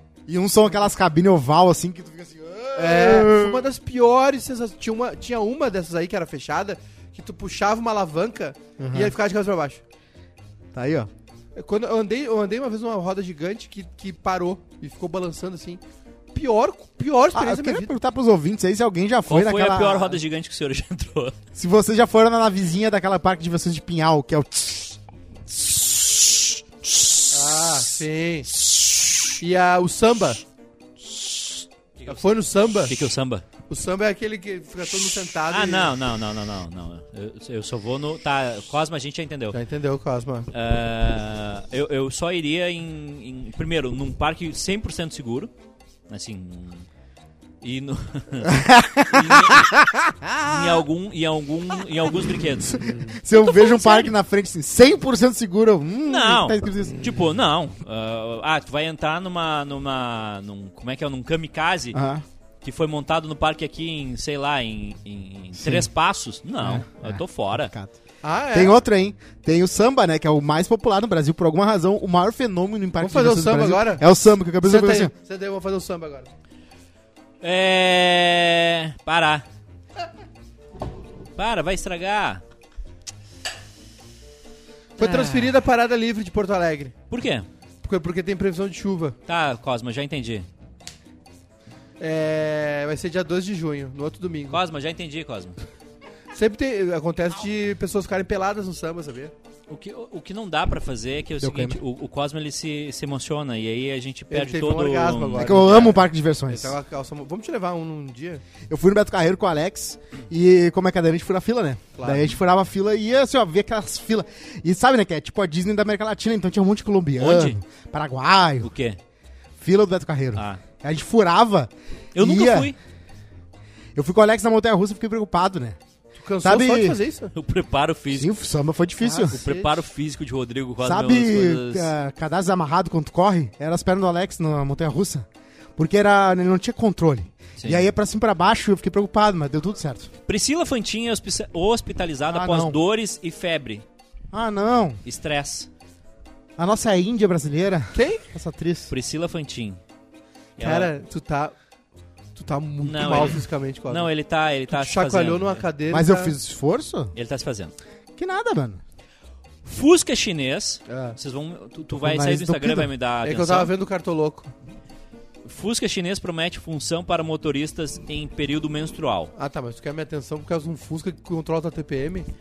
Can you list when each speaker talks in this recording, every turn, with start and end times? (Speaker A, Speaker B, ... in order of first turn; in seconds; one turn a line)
Speaker A: 0.3-3.7
Speaker B: 2.7-9.8
Speaker A: 8.8-9.1
Speaker A: 10.7-11.1
Speaker B: 11.5-15.8
Speaker B: 16.3-17.9
Speaker A: 17.3-20.2
Speaker C: 19.3-21.4
Speaker A: 21.5-25.0
Speaker B: 27.3-28.5
Speaker B: 29.4-30.4
Speaker C: 31.9-32.3
Speaker B: 32.1-32.9
Speaker C: 32.9-33.4
Speaker B: 33.7-35.9
Speaker C: 35.5-39.6
Speaker B: 39.5-40.5
Speaker C: 40.5-45.5
Speaker C: 46.1-46.9
Speaker C: 47.6-49.7
Speaker A: 48.4-50.8
Speaker C: 50.4-54.1
Speaker A: 52.7-57.1
Speaker C: 56.0-62.0
Speaker A: 61.9-62.2
Speaker C: 62.6-67.7
Speaker A: 65.5-65.9
Speaker A: 66.6-67.9
Speaker B: 68.2-68.8
Speaker A: 68.5-75.1
Speaker B: 73.0-74.1
Speaker B: 74.6-76.3
Speaker C: 77.4-79.5
Speaker C: 81.3-82.4
Speaker B: 85.0-86.9
Speaker A: 85.0-85.3
Speaker C: 87.1-87.5
Speaker B: 87.8-89.2
Speaker C: 89.3-90.5
Speaker B: 92.0-94.6
Speaker C: 94.5-95.6
Speaker B: 96.3-99.3
Speaker C: 99.7-106.0
Speaker A: 101.4-101.8
Speaker B: 104.3-108.4
Speaker A: 105.4-106.7
Speaker A: 108.6-118.7
Speaker B: 112.0-112.4
Speaker C: 117.2-117.6
Speaker C: 118.6-119.0
Speaker A: 119.6-122.7
Speaker C: 120.3-120.6
Speaker C: 122.1-122.8
Speaker A: 123.9-125.8
Speaker B: 126.1-127.3
Speaker A: 126.4-127.0
Speaker C: 127.3-128.3
Speaker A: 128.1-129.4
Speaker B: 129.0-129.8
Speaker C: 129.3-131.9
Speaker A: 130.8-140.1
Speaker C: 137.6-137.8
Speaker C: 140.3-143.8
Speaker A: 142.3-142.8
Speaker A: 144.3-145.0
Speaker C: 145.0-145.7
Speaker A: 146.6-148.9
Speaker B: 147.9-148.2
Speaker C: 148.9-149.8
Speaker C: 150.6-150.9
Speaker B: 150.6-151.5
Speaker B: 152.3-154.1
Speaker C: 152.8-155.6
Speaker B: 154.7-156.3
Speaker A: 155.9-157.1
Speaker C: 157.1-157.7
Speaker A: 158.2-158.8
Speaker C: 159.6-163.7
Speaker B: 160.9-161.2
Speaker A: 161.9-162.9
Speaker B: 163.2-164.5
Speaker C: 165.4-169.3
Speaker B: 169.3-172.3